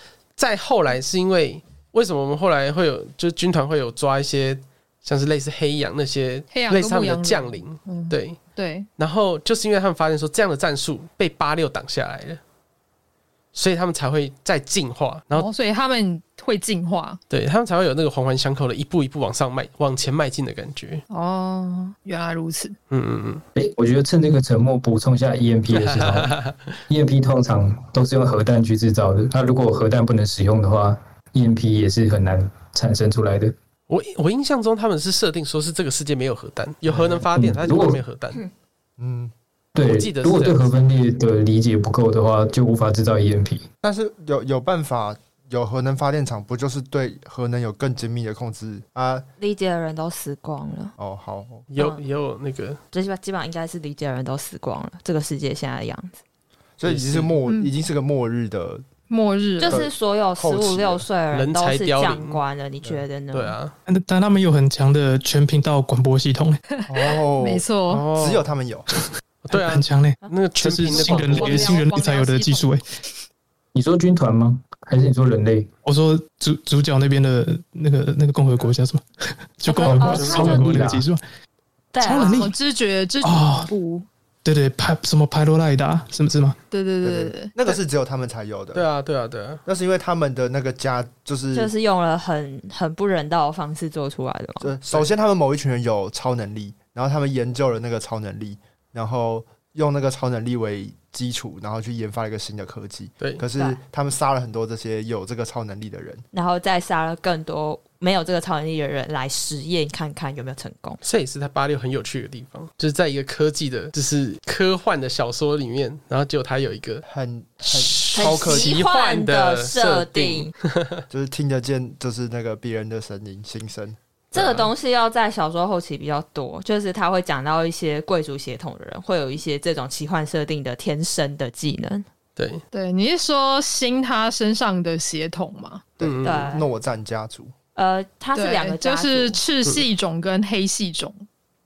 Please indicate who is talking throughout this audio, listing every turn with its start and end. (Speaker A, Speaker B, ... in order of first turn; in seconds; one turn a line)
Speaker A: 0.4-8.4
Speaker B: 6.5-8.9
Speaker A: 9.0-12.4
Speaker A: 13.6-15.5
Speaker B: 15.3-17.2
Speaker A: 17.3-21.0
Speaker B: 21.1-22.8
Speaker A: 22.9-23.4
Speaker C: 23.6-26.4
Speaker A: 25.7-26.6
Speaker C: 26.9-33.5
Speaker A: 33.9-38.4
Speaker D: 36.9-37.3
Speaker C: 37.3-38.0
Speaker D: 39.0-39.3
Speaker C: 39.8-43.6
Speaker A: 39.8-40.7
Speaker D: 43.8-49.3
Speaker E: 49.4-50.9
Speaker D: 51.0-51.7
Speaker A: 51.7-52.8
Speaker E: 52.9-56.2
Speaker D: 56.8-58.8
Speaker A: 56.8-57.3
Speaker B: 57.5-57.7
Speaker B: 59.1-59.8
Speaker E: 59.6-63.6
Speaker D: 59.7-61.0
Speaker A: 61.3-62.4
Speaker A: 63.3-63.7
Speaker F: 63.9-66.6
Speaker B: 66.8-68.0
Speaker D: 66.9-68.9
Speaker A: 67.9-68.5
Speaker A: 69.5-71.8
Speaker F: 69.5-72.8
Speaker B: 70.9-72.7
Speaker C: 73.7-75.7
Speaker F: 75.8-81.2
Speaker E: 79.7-80.8
Speaker C: 79.8-81.1
Speaker A: 80.0-80.8
Speaker E: 81.9-82.5
Speaker F: 82.0-82.5
Speaker B: 82.1-84.1
Speaker F: 83.2-83.7
Speaker F: 84.5-86.6
Speaker B: 86.7-87.8
Speaker D: 87.0-88.8
Speaker A: 88.7-89.6
Speaker D: 89.7-91.7
Speaker E: 91.5-94.8
Speaker D: 94.6-106.2
Speaker E: 106.3-111.0
Speaker A: 111.0-117.0
Speaker D: 117.1-118.8
Speaker A: 117.7-121.0
Speaker E: 118.1-120.5
Speaker D: 121.1-124.0
Speaker E: 124.3-132.1
Speaker A: 124.3-124.7
Speaker A: 132.4-132.6
Speaker B: 132.7-135.8
Speaker D: 136.0-137.5
Speaker A: 136.0-136.6
Speaker E: 136.2-136.7
Speaker E: 137.8-139.4
Speaker B: 138.3-141.2